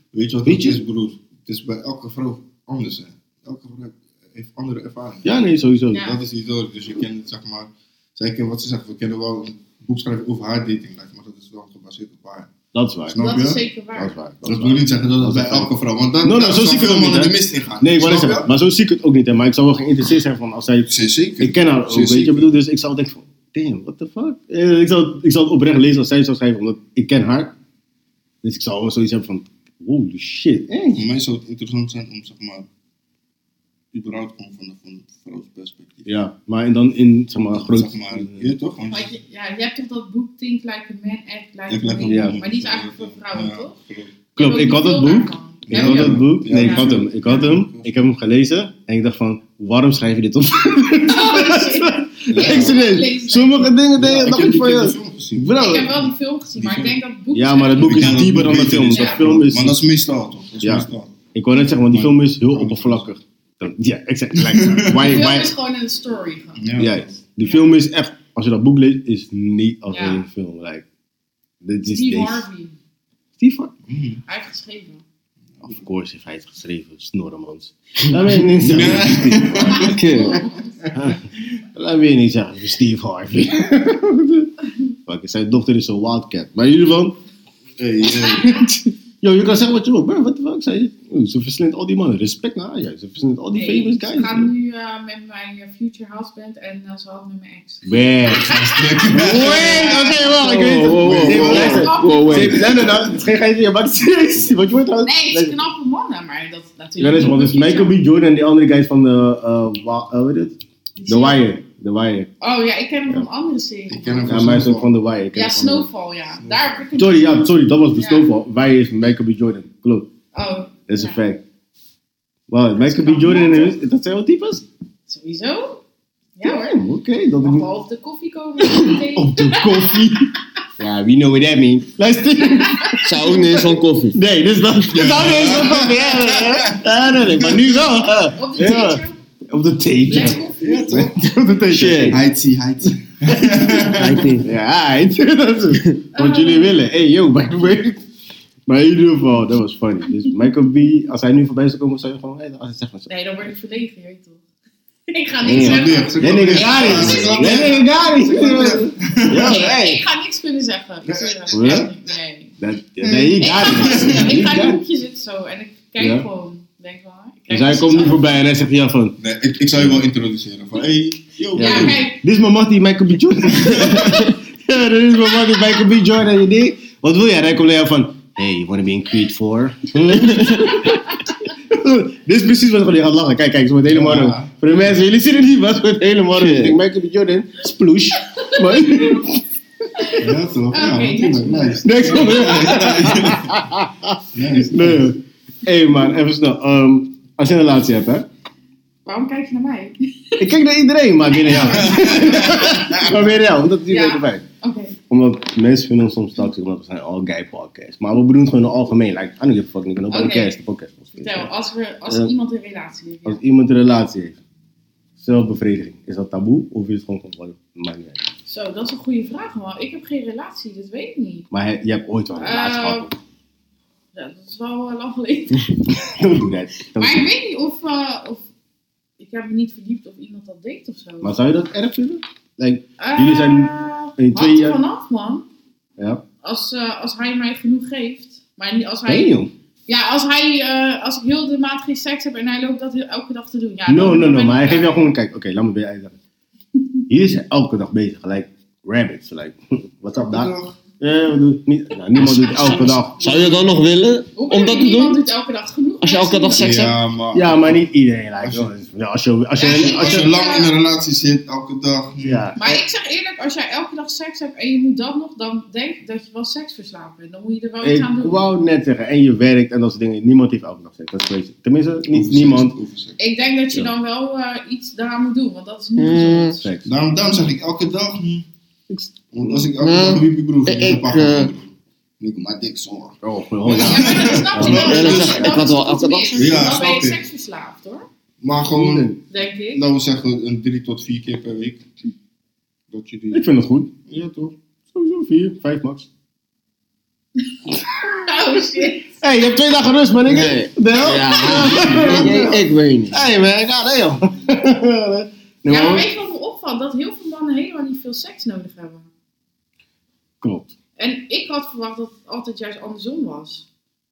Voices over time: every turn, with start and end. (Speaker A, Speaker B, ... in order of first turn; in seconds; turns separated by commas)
Speaker A: 0.1-5.4, Speaker B: 0.5-0.8, Speaker B: 5.2-6.1, Speaker C: 5.9-6.2, Speaker A: 6.0-12.5, Speaker B: 12.7-13.2, Speaker A: 13.1-13.6, Speaker C: 13.2-14.2, Speaker B: 14.0-15.7, Speaker A: 14.4-18.5, Speaker B: 16.2-27.6, Speaker A: 20.9-22.5, Speaker B: 28.4-31.1, Speaker A: 30.9-32.7, Speaker A: 33.9-36.1, Speaker B: 36.1-38.5, Speaker A: 37.5-39.1, Speaker C: 38.9-43.8, Speaker A: 41.7-44.2, Speaker B: 42.1-42.4, Speaker C: 44.4-47.5, Speaker B: 44.4-56.0, Speaker A: 45.7-48.0, Speaker C: 51.0-53.8, Speaker A: 52.3-52.8, Speaker A: 54.0-57.0, Speaker C: 55.6-59.2, Speaker B: 57.3-59.8, Speaker A: 57.8-61.1, Speaker B: 60.6-65.5, Speaker A: 61.9-63.1, Speaker A: 64.4-65.3, Speaker C: 65.0-66.6, Speaker A: 66.6-67.1, Speaker B: 66.8-70.9, Speaker C: 67.4-67.7, Speaker C: 69.9-70.3, Speaker B: 71.6-72.5, Speaker C: 71.9-72.8, Speaker B: 73.4-73.7, Speaker A: 73.9-74.2, Speaker C: 74.3-75.0, Speaker B: 75.6-79.9, Speaker A: 78.6-80.9, Speaker C: 79.7-80.7, Speaker D: 79.8-80.4, Speaker B: 80.9-81.2, Speaker B: 81.7-84.5, Speaker B: 85.1-87.2, Speaker A: 87.8-88.7, Speaker B: 88.3-94.5, Speaker C: 93.5-99.5, Speaker B: 97.8-105.6, Speaker A: 98.5-103.1, Speaker D: 100.3-102.7, Speaker C: 101.3-102.7, Speaker C: 105.0-108.0, Speaker B: 107.0-112.3, Speaker C: 111.0-111.5, Speaker C: 112.4-114.4, Speaker A: 113.9-114.9, Speaker B: 114.3-115.9, Speaker C: 115.3-118.3, Speaker A: 116.4-116.9, Speaker B: 117.0-120.1, Speaker C: 120.3-121.2, Speaker B: 120.9-121.5, Speaker B: 122.5-124.7, Speaker C: 122.8-123.8, Speaker C: 125.1-125.8, Speaker C: 126.4-126.7, Speaker B: 126.4-127.7, Speaker C: 127.4-130.0, Speaker B: 128.6-130.3, Speaker B: 130.8-133.6, Speaker C: 132.7-133.0, Speaker D: 133.0-134.2, Speaker B: 134.1-142.2, Speaker A: 134.9-137.6, Speaker C: 138.3-139.2, Speaker C: 140.1-141.1, Speaker A: 140.6-141.3, Speaker D: 141.7-142.2, Speaker A: 142.1-144.3, Speaker D: 143.9-144.5, Speaker B: 144.3-148.0, Speaker C: 146.2-146.8, Speaker B: 148.7-153.1, Speaker C: 153.1-154.4, Speaker C: 155.1-157.8, Speaker B: 155.4-160.0, Speaker A: 155.5-159.6, Speaker C: 159.3-162.5, Speaker A: 161.1-162.1, Speaker B: 161.5-161.9, Speaker B: 162.6-164.8, Speaker A: 163.0-164.4, Speaker C: 163.4-168.3, Speaker B: 166.0-166.3, Speaker B: 167.5-169.2, Speaker A: 169.2-172.0, Speaker B: 171.6-189.4, Speaker C: 171.6-172.2, Speaker A: 173.6-174.3, Speaker D: 180.3-180.6, Speaker A: 183.9-184.5, Speaker D: 186.2-186.8, Speaker C: 188.4-189.2, Speaker A: 190.2-193.6, Speaker C: 190.7-192.7, Speaker B: 191.8-198.3, Speaker A: 194.3-195.1, Speaker C: 199.1-200.5, Speaker B: 200.4-204.4, Speaker C: 201.3-203.1, Speaker A: 201.6-203.2, Speaker C: 203.9-205.0, Speaker B: 205.1-211.5, Speaker C: 210.1-210.6, Speaker C: 211.1-213.4, Speaker B: 212.1-212.3, Speaker B: 213.2-214.4, Speaker B: 215.2-218.2, Speaker C: 218.5-221.5, Speaker B: 221.5-223.2, Speaker C: 222.4-223.1, Speaker C: 224.1-225.7, Speaker B: 226.1-227.3, Speaker C: 227.0-228.4, Speaker C: 229.2-231.3, Speaker B: 231.2-234.8, Speaker C: 233.0-235.4, Speaker B: 236.0-236.2, Speaker C: 236.4-239.3, Speaker B: 239.1-239.5, Speaker C: 239.9-245.1, Speaker B: 243.9-246.2, Speaker B: 247.1-253.6, Speaker A: 250.1-250.8, Speaker C: 252.2-253.1, Speaker A: 252.6-252.9, Speaker D: 253.2-255.2, Speaker C: 254.4-256.8, Speaker D: 256.0-257.0, Speaker A: 256.6-257.8, Speaker B: 257.3-260.3, Speaker A: 258.4-258.7, Speaker C: 259.6-260.7, Speaker A: 259.7-262.5, Speaker B: 262.2-262.7, Speaker C: 262.6-268.4, Speaker B: 267.8-272.8, Speaker A: 272.1-273.2, Speaker C: 273.2-276.7, Speaker D: 276.0-276.6, Speaker B: 276.6-276.9, Speaker A: 276.9-278.5, Speaker B: 278.9-279.5, Speaker A: 279.3-281.7, Speaker D: 279.5-281.5, Speaker A: 282.2-285.6, Speaker B: 283.2-285.1, Speaker C: 283.8-288.1, Speaker D: 284.6-286.7, Speaker A: 286.4-287.2, Speaker A: 288.4-289.1, Speaker B: 288.7-289.2, Speaker C: 289.3-289.8, Speaker A: 289.7-291.8, Speaker A: 292.9-293.5, Speaker B: 293.3-294.1, Speaker A: 294.1-294.5, Speaker B: 294.9-296.1, Speaker C: 297.7-299.2, Speaker B: 299.2-306.1, Speaker D: 300.3-303.2, Speaker A: 301.5-302.5, Speaker C: 305.7-309.1, Speaker B: 310.4-310.7, Speaker C: 311.0-313.6